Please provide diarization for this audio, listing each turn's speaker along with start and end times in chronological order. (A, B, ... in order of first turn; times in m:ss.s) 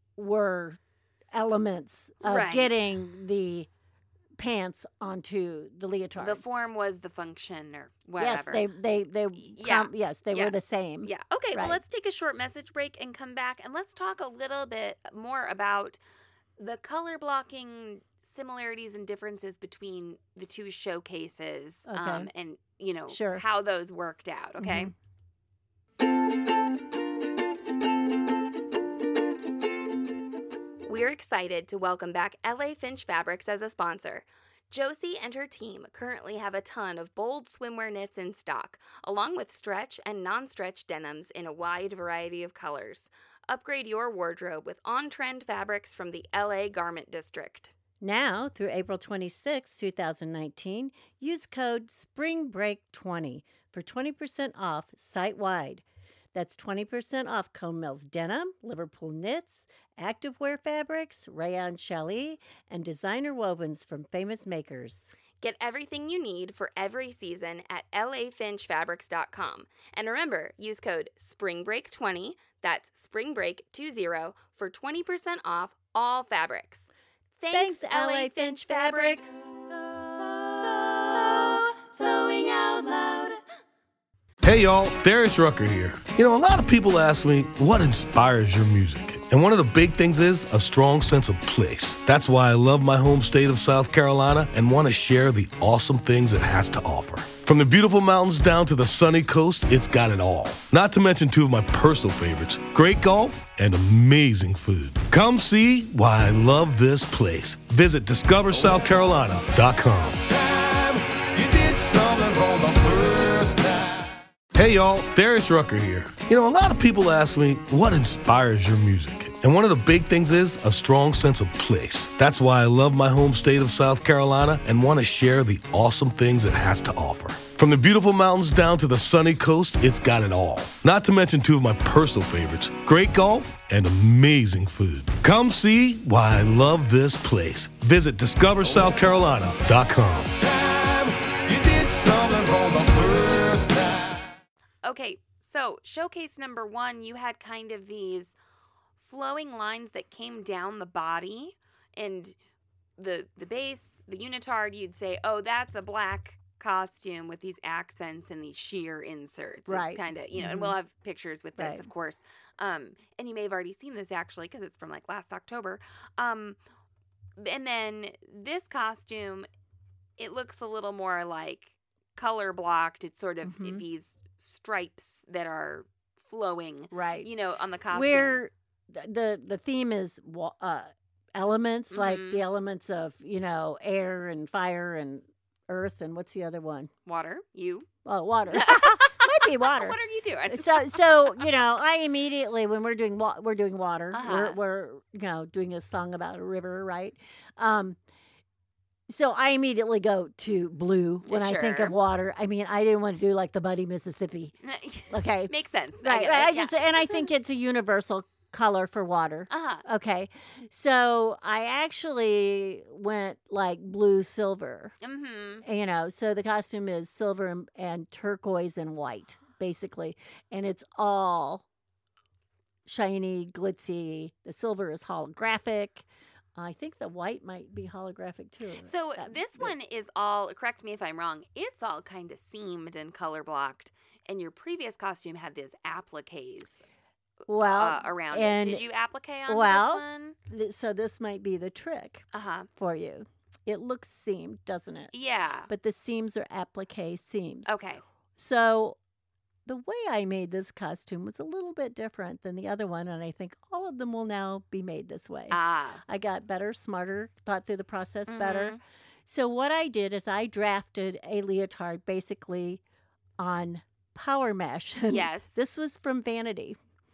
0:00.2-0:00.8 A
0:01.3-0:03.7 A
0:02.2-0:02.8 B
0:04.4-0:06.4 A
0:06.2-0:08.6 B
0:08.2-0:11.8 A
0:09.4-0:16.0 B
0:16.6-0:24.9 B
0:21.9-0:22.3 A
0:23.1-0:23.4 A
0:24.6-0:24.9 A
0:30.8-0:47.7 B
0:48.0-1:05.2 A
1:05.4-1:23.4 B
1:17.5-1:19.4 A
1:24.4-1:53.9 C
1:54.5-2:24.0 C
2:24.8-2:28.3 B
2:29.0-2:32.4 B
2:33.0-2:46.6 B
2:39.7-2:40.8 A
2:41.6-2:41.9 A
2:47.4-2:49.5 B
2:50.2-2:58.4 B
2:53.4-2:53.8 A
2:56.9-2:57.3 A
2:57.9-3:06.9 A
3:01.9-3:02.4 B
3:07.0-3:07.9 B
3:08.0-3:18.0 A
3:08.5-3:11.4 B
3:14.1-3:14.6 B
3:19.1-3:24.5 A
3:21.2-3:21.9 B
3:24.6-3:27.3 B
3:25.1-3:34.9 A
3:29.5-3:29.8 B
3:35.0-3:35.6 B
3:35.6-3:41.6 A
3:42.8-3:49.7 A
3:48.8-3:56.8 B
3:57.5-3:58.8 A
3:57.6-4:00.4 B
3:59.5-4:02.2 A
4:02.3-4:02.7 B
4:02.8-4:05.1 A
4:05.1-4:05.7 B
4:05.7-4:07.7 A
4:07.6-4:08.0 B
4:08.4-4:09.0 A
4:09.6-4:22.8 A
4:15.5-4:16.0 B
4:18.3-4:18.8 B
4:23.4-4:26.8 A
4:25.1-4:25.6 B